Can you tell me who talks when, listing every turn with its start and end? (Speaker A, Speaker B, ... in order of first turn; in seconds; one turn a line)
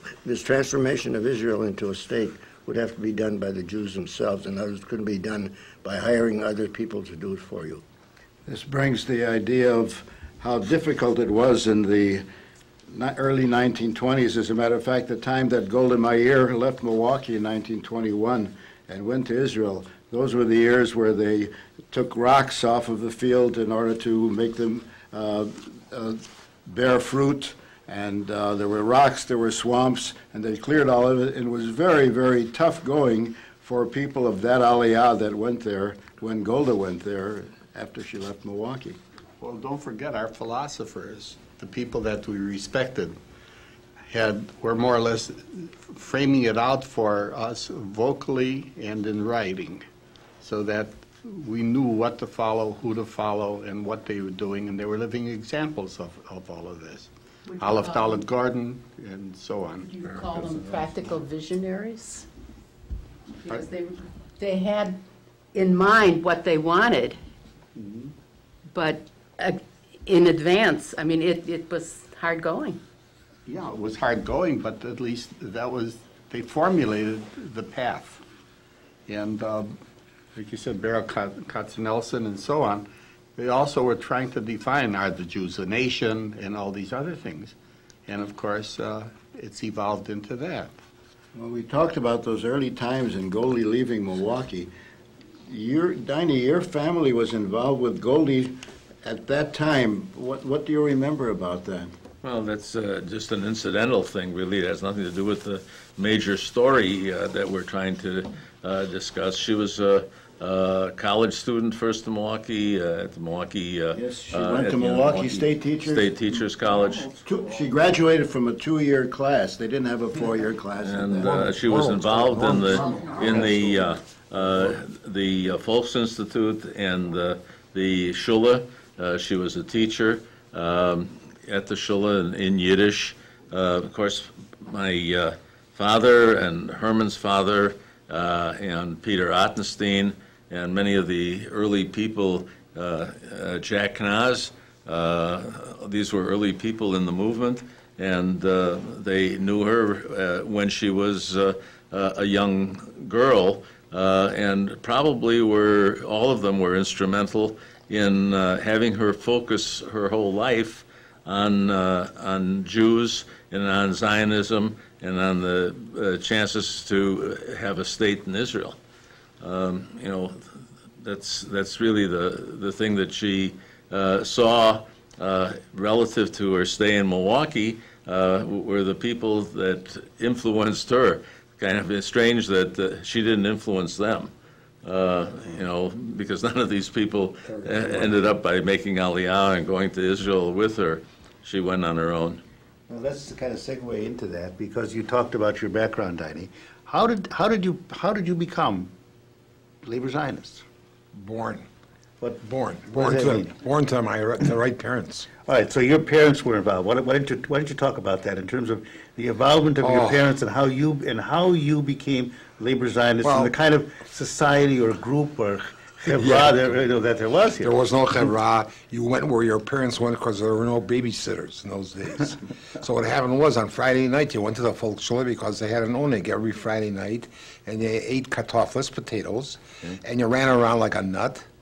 Speaker A: 0.2-7.8
Speaker B: 8.5-12.3
Speaker B: 12.9-39.0
Speaker C: 39.4-43.2
Speaker C: 44.0-49.9
Speaker C: 50.4-59.9
Speaker D: 57.5-58.2
Speaker D: 59.9-62.3
Speaker D: 63.5-65.0
Speaker D: 65.5-67.2
Speaker C: 67.8-68.1
Speaker D: 68.7-72.8
Speaker C: 73.5-78.2
Speaker C: 79.1-79.8
Speaker C: 80.3-87.5
Speaker C: 88.1-90.7
Speaker B: 91.3-94.7
Speaker B: 95.5-101.9
Speaker E: 102.2-117.1
Speaker B: 113.9-116.1
Speaker B: 117.2-121.5
Speaker E: 120.8-168.8
Speaker F: 121.2-123.8
Speaker B: 122.6-123.8
Speaker E: 169.4-184.3
Speaker E: 184.8-192.4
Speaker G: 187.7-188.0
Speaker G: 192.9-198.9
Speaker G: 199.8-200.7
Speaker F: 201.1-201.7
Speaker G: 202.2-203.5
Speaker F: 202.4-205.3
Speaker G: 205.4-217.8
Speaker F: 209.8-210.2
Speaker F: 213.2-213.5
Speaker F: 216.1-216.6
Speaker F: 217.6-231.5